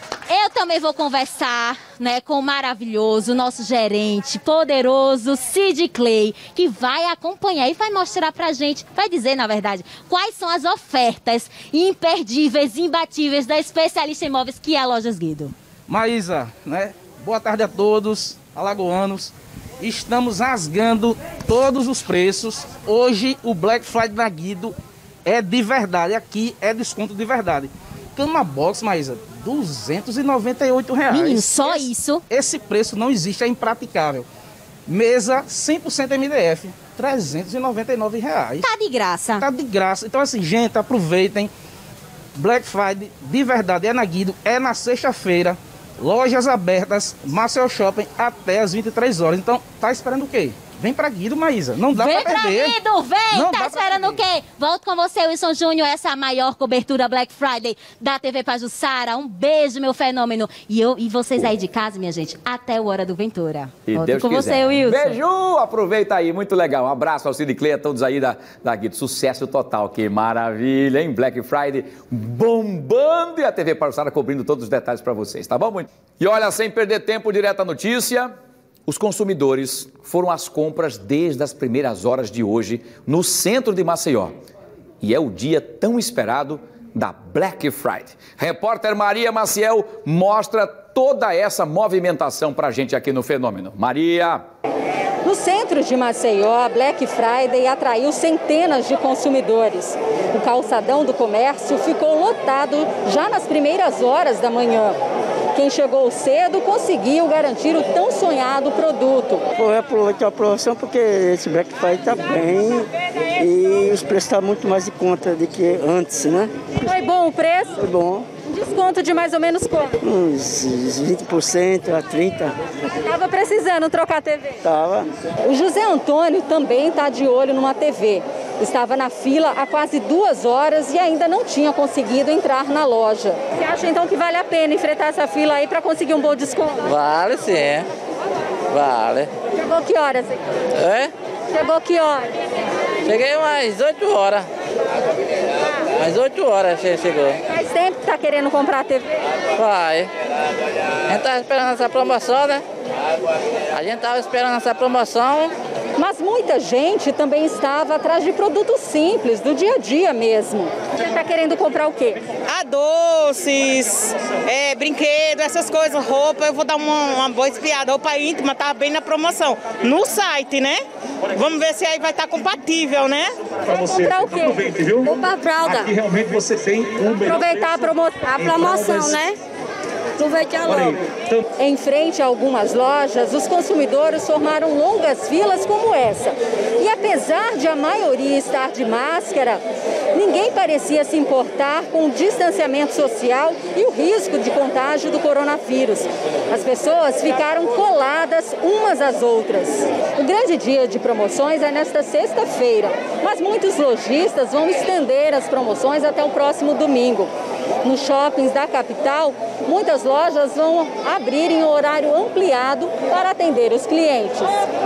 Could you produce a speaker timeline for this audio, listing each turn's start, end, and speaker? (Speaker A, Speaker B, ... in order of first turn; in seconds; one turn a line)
Speaker A: 0.3-15.5
Speaker B: 15.9-34.3
Speaker A: 31.1-32.2
Speaker B: 34.9-38.7
Speaker A: 38.6-39.5
Speaker B: 39.4-41.5
Speaker B: 42.4-52.8
Speaker A: 51.9-65.2
Speaker B: 53.3-54.2
Speaker C: 63.9-78.3
Speaker C: 78.9-84.4
Speaker C: 85.0-94.4
Speaker D: 95.2-105.0
Speaker D: 105.5-109.4
Speaker E: 109.6-116.7
Speaker D: 116.8-117.8
Speaker E: 117.8-118.3
Speaker D: 118.5-120.0
Speaker E: 120.0-122.5
Speaker D: 123.0-124.6
Speaker E: 124.6-125.1
Speaker D: 125.4-136.9
Speaker F: 136.9-137.8
Speaker F: 138.7-139.3
Speaker D: 139.5-140.4
Speaker F: 140.8-141.1
Speaker D: 141.5-142.3
Speaker F: 143.1-144.4
Speaker F: 146.0-147.4
Speaker D: 147.5-149.2
Speaker F: 149.6-150.1
Speaker F: 151.1-152.6
Speaker F: 153.7-155.5
Speaker D: 156.0-162.2
Speaker G: 162.4-170.8
Speaker G: 171.3-173.3
Speaker D: 173.7-174.8
Speaker H: 173.8-175.1
Speaker F: 175.0-175.9
Speaker H: 175.6-177.8
Speaker D: 177.2-178.4
Speaker F: 178.3-179.4
Speaker H: 178.4-179.1
Speaker F: 180.2-181.0
Speaker H: 180.7-181.4
Speaker D: 181.6-189.6
Speaker D: 190.1-207.3
Speaker D: 207.8-214.5